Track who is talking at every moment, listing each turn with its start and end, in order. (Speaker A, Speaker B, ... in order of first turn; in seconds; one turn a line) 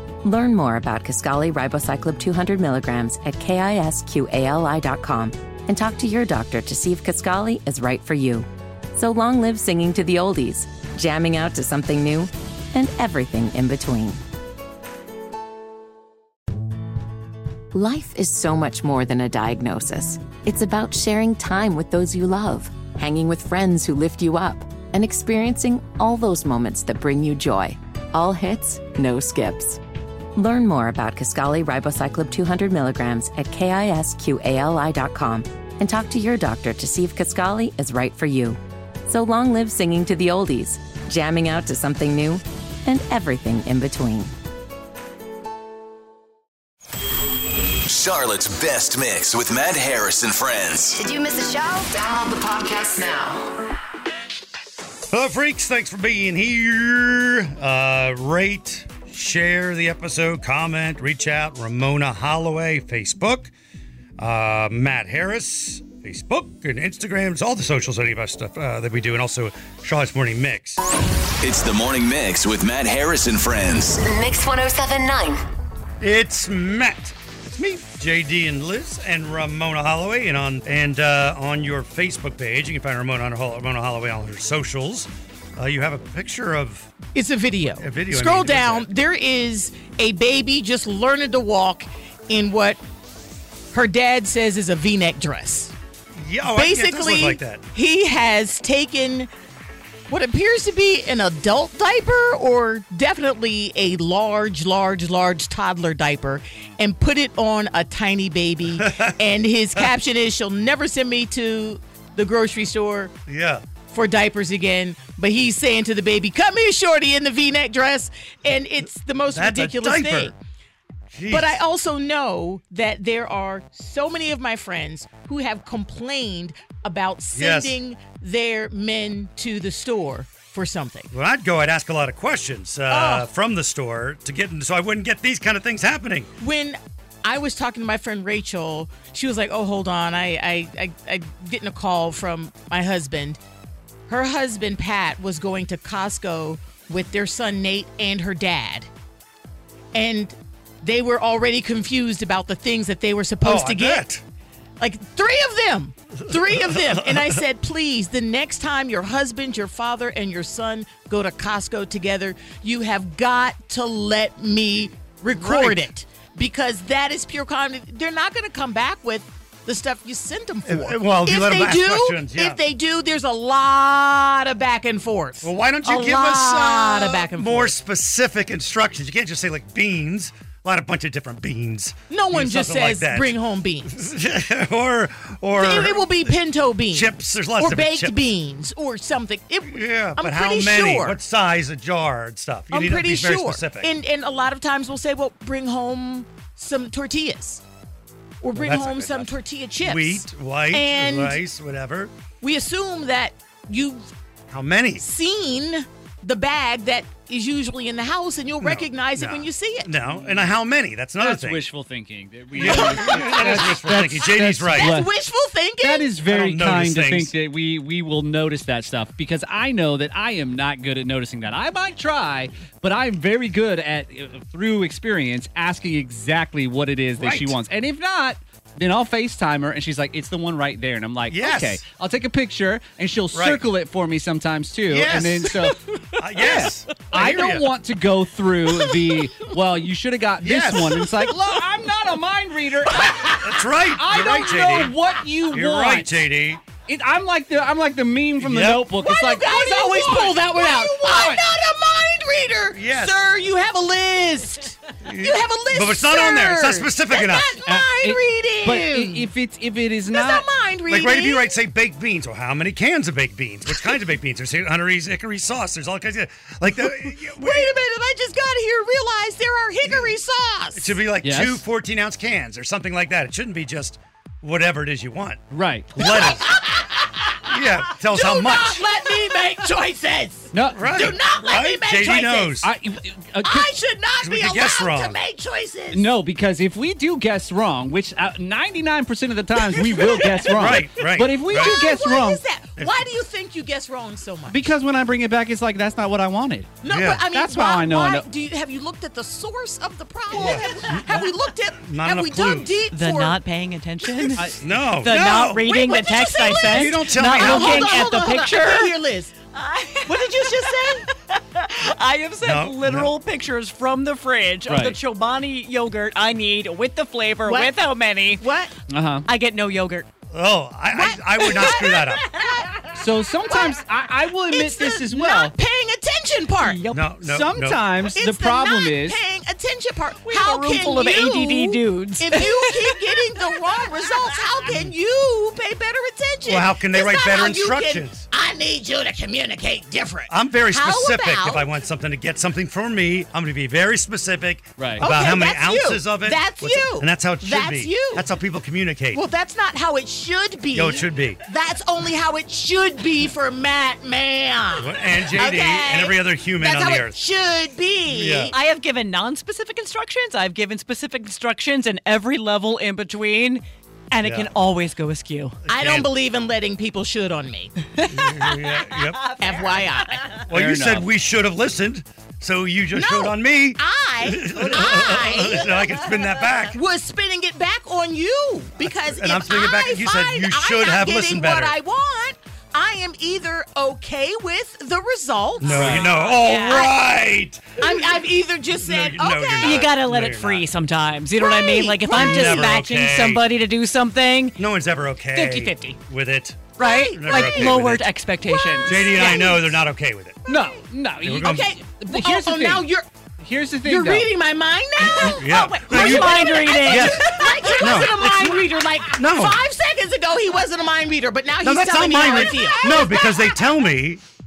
Speaker A: 0.2-14.2
Speaker A: 17.7-29.8
Speaker A: 30.4-44.3
Speaker B: 47.9-51.0
Speaker C: 50.9-53.5
Speaker D: 55.1-63.5
Speaker D: 64.2-70.8
Speaker B: 71.4-74.0
Speaker C: 74.0-75.4
Speaker D: 76.0-86.9
Speaker E: 87.2-92.8
Speaker D: 87.7-88.9
Speaker E: 93.7-95.7
Speaker D: 96.2-97.7
Speaker E: 96.5-99.3
Speaker E: 100.1-113.1
Speaker D: 108.8-109.1
Speaker D: 113.3-113.6
Speaker E: 113.9-120.4
Speaker D: 119.3-120.3
Speaker D: 121.1-121.6
Speaker E: 121.3-131.1
Speaker D: 127.3-127.8
Speaker D: 131.1-136.3
Speaker E: 132.9-133.3
Speaker E: 136.4-143.4
Speaker E: 144.1-148.9
Speaker E: 149.9-154.1
Speaker D: 153.4-154.2
Speaker E: 154.8-177.8
Speaker D: 156.5-157.3
Speaker D: 165.3-165.9
Speaker D: 170.7-172.6
Speaker D: 175.4-183.4
Speaker E: 182.1-184.0
Speaker D: 183.9-186.4
Speaker E: 185.6-191.2
Speaker D: 186.9-188.2
Speaker D: 189.7-193.9
Speaker E: 192.7-197.6
Speaker E: 198.4-201.4
Speaker D: 198.6-199.3
Speaker D: 199.8-202.1
Speaker E: 202.4-204.1
Speaker D: 204.5-205.0
Speaker E: 205.0-209.9
Speaker D: 208.6-211.7
Speaker F: 210.1-210.4
Speaker F: 211.2-215.1
Speaker D: 212.5-214.9
Speaker E: 212.6-216.1
Speaker F: 215.8-235.8
Speaker D: 216.2-217.3
Speaker D: 227.2-227.6
Speaker D: 231.3-231.8
Speaker D: 233.3-233.7
Speaker D: 234.9-237.7
Speaker F: 236.4-246.3
Speaker D: 240.4-241.0
Speaker D: 243.3-245.0
Speaker D: 245.5-246.6
Speaker F: 246.8-251.4
Speaker D: 248.4-248.9
Speaker E: 249.0-259.3
Speaker D: 252.7-253.3
Speaker D: 255.0-257.6
Speaker F: 257.6-260.5
Speaker E: 260.1-261.5
Speaker D: 260.9-267.7
Speaker E: 263.7-264.0
Speaker E: 266.8-270.9
Speaker D: 269.9-270.1
Speaker D: 270.8-275.4
Speaker F: 271.2-271.6
Speaker F: 275.5-276.1
Speaker D: 275.9-276.6
Speaker E: 276.0-282.7
Speaker D: 277.4-278.8
Speaker F: 280.5-280.9
Speaker D: 280.7-282.7
Speaker F: 282.6-283.7
Speaker E: 283.4-286.1
Speaker D: 284.2-285.2
Speaker F: 285.9-292.4
Speaker E: 289.6-290.9
Speaker D: 290.5-291.8
Speaker E: 291.4-294.6
Speaker D: 292.8-293.0
Speaker F: 294.5-296.7
Speaker E: 296.8-303.5
Speaker D: 296.9-297.2
Speaker F: 297.3-298.3
Speaker D: 300.3-302.7
Speaker G: 302.9-304.5
Speaker E: 304.0-304.4
Speaker D: 304.5-305.6
Speaker G: 305.0-308.9
Speaker E: 305.6-309.4
Speaker D: 306.6-308.1
Speaker G: 309.5-318.5
Speaker E: 310.1-311.1
Speaker D: 312.4-313.1
Speaker F: 314.7-315.0
Speaker E: 317.4-317.8
Speaker E: 318.4-318.7
Speaker F: 318.9-319.3
Speaker G: 319.2-320.1
Speaker D: 320.3-322.3
Speaker E: 320.9-322.8
Speaker F: 322.9-325.6
Speaker E: 323.5-323.8
Speaker E: 324.5-326.8
Speaker G: 326.6-327.2
Speaker D: 326.9-327.8
Speaker F: 327.2-329.2
Speaker E: 328.1-341.7
Speaker G: 330.3-333.2
Speaker G: 333.7-334.3
Speaker D: 336.4-338.3
Speaker D: 340.3-349.2
Speaker F: 344.8-345.0
Speaker E: 345.0-348.3
Speaker E: 349.1-358.6
Speaker D: 350.7-351.4
Speaker D: 354.8-357.2
Speaker D: 358.1-358.6
Speaker G: 358.5-365.6
Speaker D: 364.2-364.5
Speaker D: 365.7-366.1
Speaker E: 365.7-367.9
Speaker D: 368.1-369.2
Speaker G: 368.5-370.4
Speaker E: 369.4-370.2
Speaker D: 370.5-376.8
Speaker F: 370.5-371.1
Speaker E: 372.9-387.0
Speaker D: 378.8-381.8
Speaker D: 385.6-390.7
Speaker F: 385.7-386.1
Speaker G: 386.1-386.5
Speaker E: 387.8-389.9
Speaker G: 389.6-394.6
Speaker E: 391.4-392.7
Speaker D: 392.1-393.4
Speaker D: 394.6-398.1
Speaker G: 395.3-396.0
Speaker E: 396.8-397.8
Speaker G: 396.8-399.1
Speaker E: 398.4-399.8
Speaker D: 398.8-400.4
Speaker E: 400.5-400.8
Speaker F: 400.5-404.3
Speaker D: 401.2-401.8
Speaker E: 401.4-403.1
Speaker E: 403.8-413.7
Speaker D: 405.2-409.6
Speaker G: 405.4-407.9
Speaker D: 411.6-414.2